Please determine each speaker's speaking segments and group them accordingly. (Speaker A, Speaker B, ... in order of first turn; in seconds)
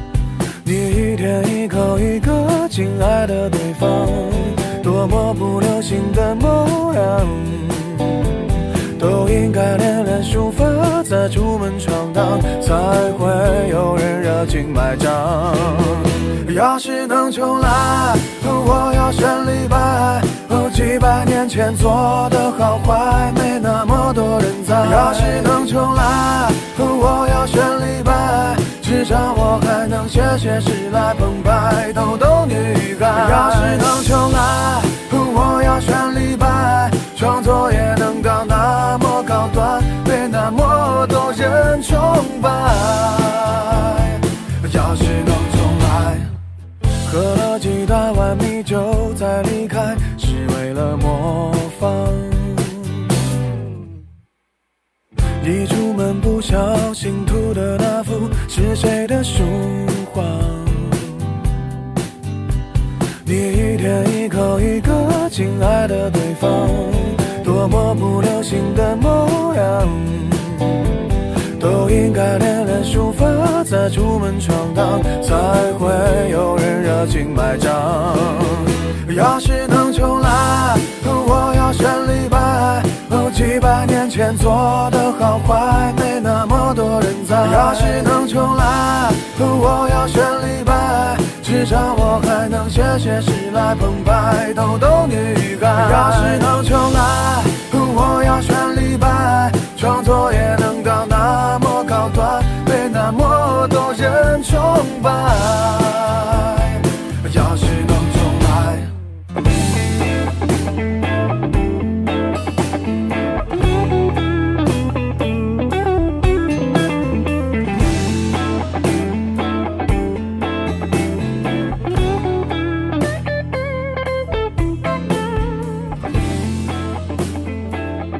Speaker A: 0.6-46.3, 47.0-53.0, 55.4-61.3, 63.2-108.9